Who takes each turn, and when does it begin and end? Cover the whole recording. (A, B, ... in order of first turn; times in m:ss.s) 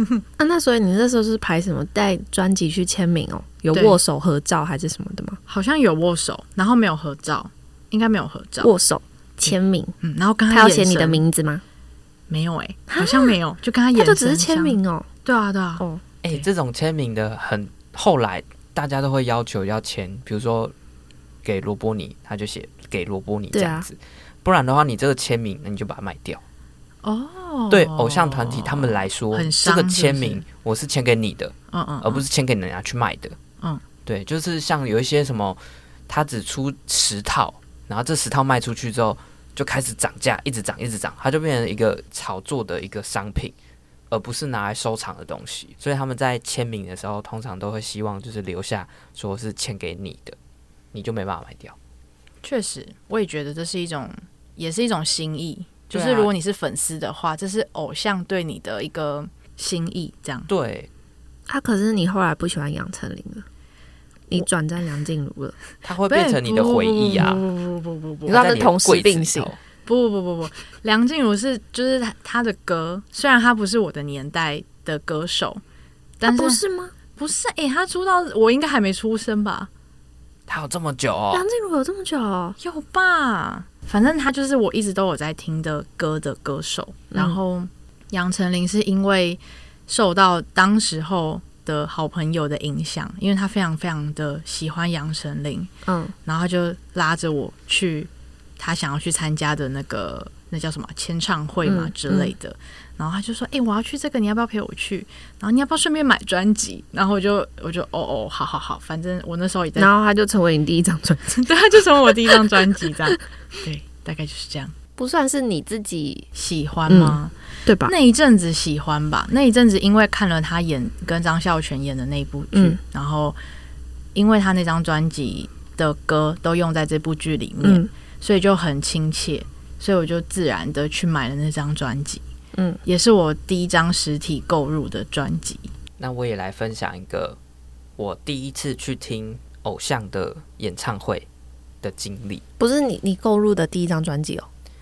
0:00.4-0:05.4 A
0:03.7-0:04.0 B
0:05.5-0:08.7 B
0:08.6-0:10.0 A
0:10.0-0:11.2 B
0:10.5-0:11.6 A
0:12.3-0:16.5 B
0:12.9-0:13.4 A
0:14.0-0:15.1 A
0:16.2-0:20.7 C
0:21.4-0:26.4 C
0:23.5-0:23.9 A
0:27.0-0:30.4 B
0:27.7-0:33.4 C
0:31.7-0:32.2 B
0:34.1-0:43.6 C
0:44.1-0:50.4 C
0:50.9-0:51.8 C
0:52.4-1:00.5 B
0:55.9-0:56.3 C
1:00.5-1:00.9 C
1:01.5-1:03.4 A
1:04.3-1:05.6 A
1:05.8-1:07.4 C
1:06.1-1:08.4 B
1:08.3-1:09.5 A
1:08.3-1:09.6 C
1:09.9-1:15.6 B
1:16.2-1:16.6 B
1:16.3-1:16.9 A
1:17.2-1:19.7 B
1:20.5-1:21.5 C
1:21.3-1:22.6 A
1:22.6-1:35.7 B
1:27.1-1:27.4 A
1:35.9-1:36.1 A
1:36.3-1:49.9 B
1:41.6-1:42.3 A
1:49.8-1:51.4 A
1:51.3-1:54.7 B
1:55.0-1:56.3 A
1:56.3-1:57.3 B
1:56.9-1:57.9 A
1:57.9-2:03.4 B
2:02.5-2:02.8 A
2:04.1-2:12.2 B
2:07.6-2:07.9 A
2:12.5-2:12.8 A
2:12.8-2:15.7 B
2:16.0-2:17.4 C
2:18.0-2:21.3 C
2:21.8-2:22.4 C
2:22.6-2:24.5 A